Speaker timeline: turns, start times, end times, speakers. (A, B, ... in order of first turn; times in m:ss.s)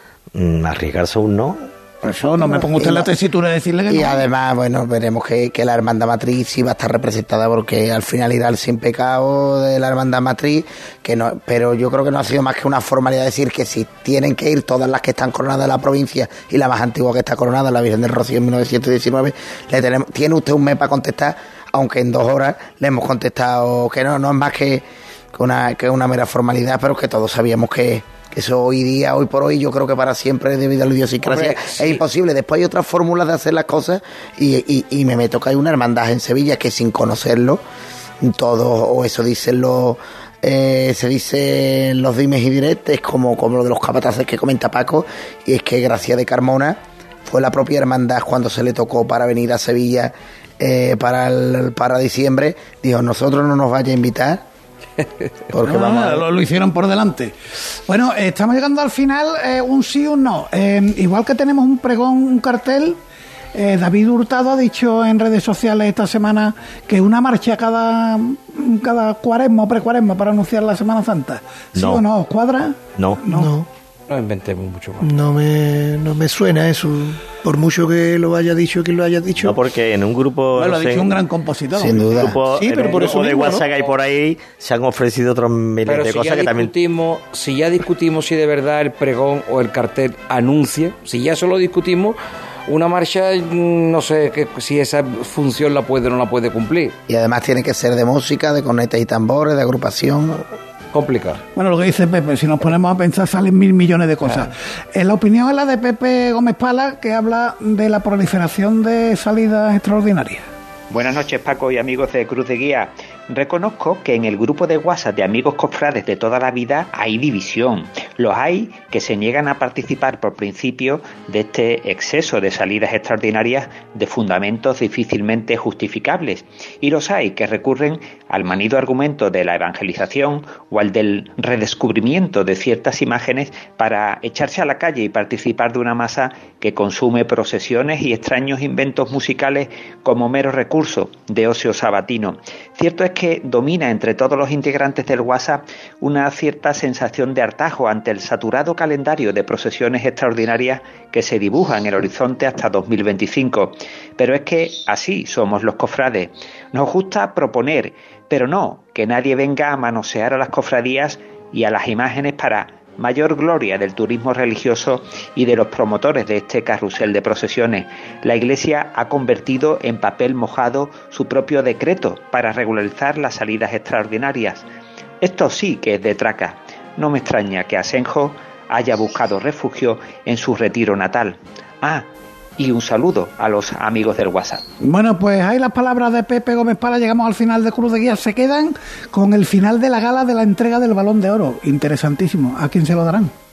0:00.4-0:01.7 A
0:02.0-0:04.3 B
0:02.4-0:03.1 C
0:03.9-0:37.6 C
0:31.2-0:32.0 D
0:38.2-0:54.4 C
0:55.0-0:55.3 D
0:55.5-0:56.3 C
0:55.6-0:57.4 B
0:57.9-1:03.0 B
1:03.5-1:13.5 B
1:11.8-1:12.0 A
1:13.0-1:13.2 A
1:13.3-1:13.7 E
1:14.1-1:15.1 D
1:15.0-1:19.7 E
1:19.4-1:21.2 A
1:20.6-1:23.6 B
1:21.8-1:22.4 C
1:22.1-1:26.7 A
1:25.9-1:32.2 D
1:32.7-1:37.0 D
1:37.1-1:40.5 C
1:40.9-1:41.4 D
1:41.6-1:50.5 B
1:50.9-2:54.6 F
2:55.2-3:02.0 F
3:02.6-3:04.6 F
3:04.8-3:13.3 B